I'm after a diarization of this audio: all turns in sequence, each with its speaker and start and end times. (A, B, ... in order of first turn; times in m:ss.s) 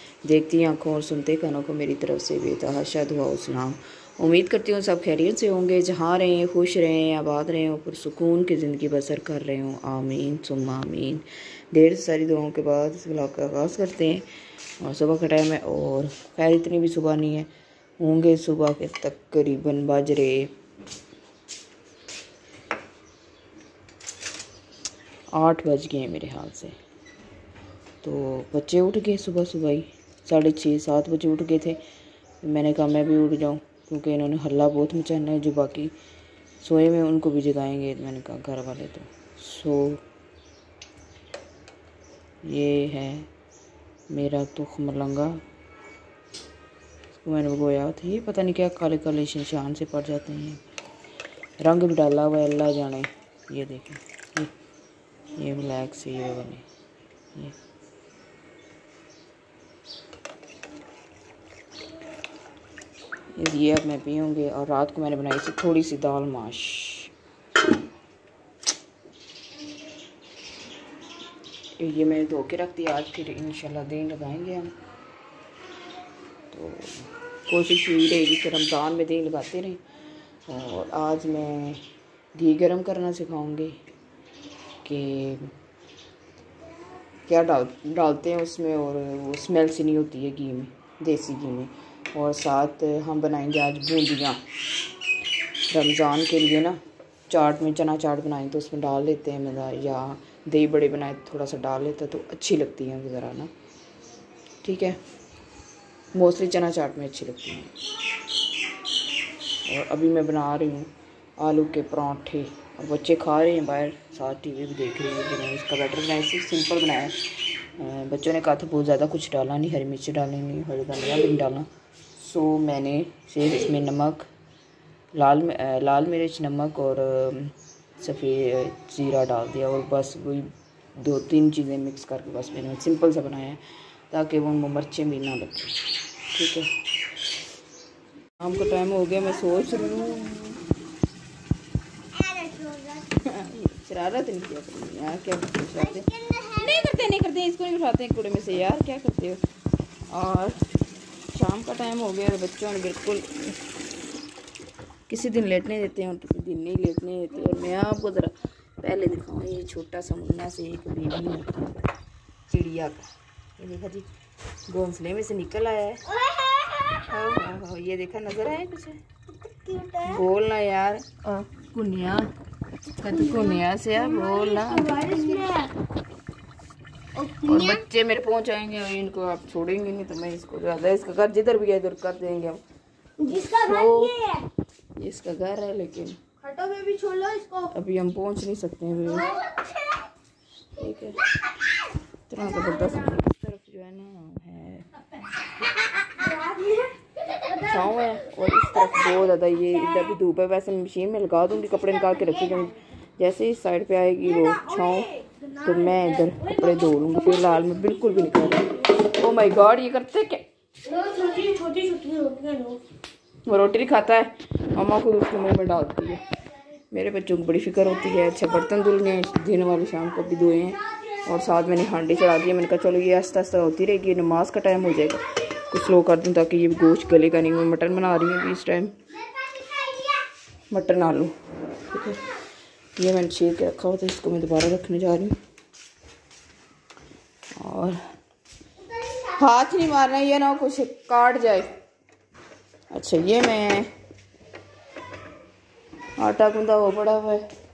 0:00.2-0:14.3 A
0:14.8-0:20.5 A
0:25.3-0:26.8 A
0:28.0-0:31.8 A
0:32.4-0:36.0 A
0:36.6-0:40.0 A
0:42.4-0:43.3 A
0:44.1-0:45.4 A
0:47.1-0:50.6 A
0:51.6-0:54.5 A
0:55.4-0:56.6 A
1:03.4-1:07.1 A
1:11.8-1:14.7 A
1:16.5-1:19.8 A
1:20.5-1:21.8 A
1:22.4-1:23.8 A
1:24.8-1:25.5 A
1:27.3-1:34.4 A
1:35.7-1:43.5 A
1:44.6-1:45.0 A
1:46.1-1:47.7 A
1:49.6-2:04.3 A
2:05.1-2:16.7 A
2:18.4-2:20.6 A
2:23.1-2:29.4 A
2:30.1-2:30.6 A
2:31.3-2:33.6 A
2:35.1-2:41.8 A
2:42.5-2:43.1 A
2:43.6-2:44.1 A
2:44.7-2:46.0 A
2:46.9-2:49.0 A
2:49.6-2:49.9 B
2:49.9-2:52.3 A
2:53.0-2:55.6 A
2:57.2-3:02.6 A
3:03.2-3:04.4 A
3:03.4-3:04.3 B
3:05.0-3:06.2 A
3:06.5-3:07.7 B
3:07.7-3:09.3 A
3:10.8-3:11.2 A
3:12.3-3:14.9 A
3:16.2-3:16.9 B
3:17.6-3:30.5 A
3:30.9-3:32.8 B
3:33.5-3:36.2 A
3:36.9-3:49.0 A
3:50.7-3:51.4 A
3:51.9-3:52.2 A
3:53.0-3:55.4 A
3:57.6-3:58.0 A
3:59.2-4:01.7 A
4:02.9-4:03.9 A
4:06.2-4:07.4 A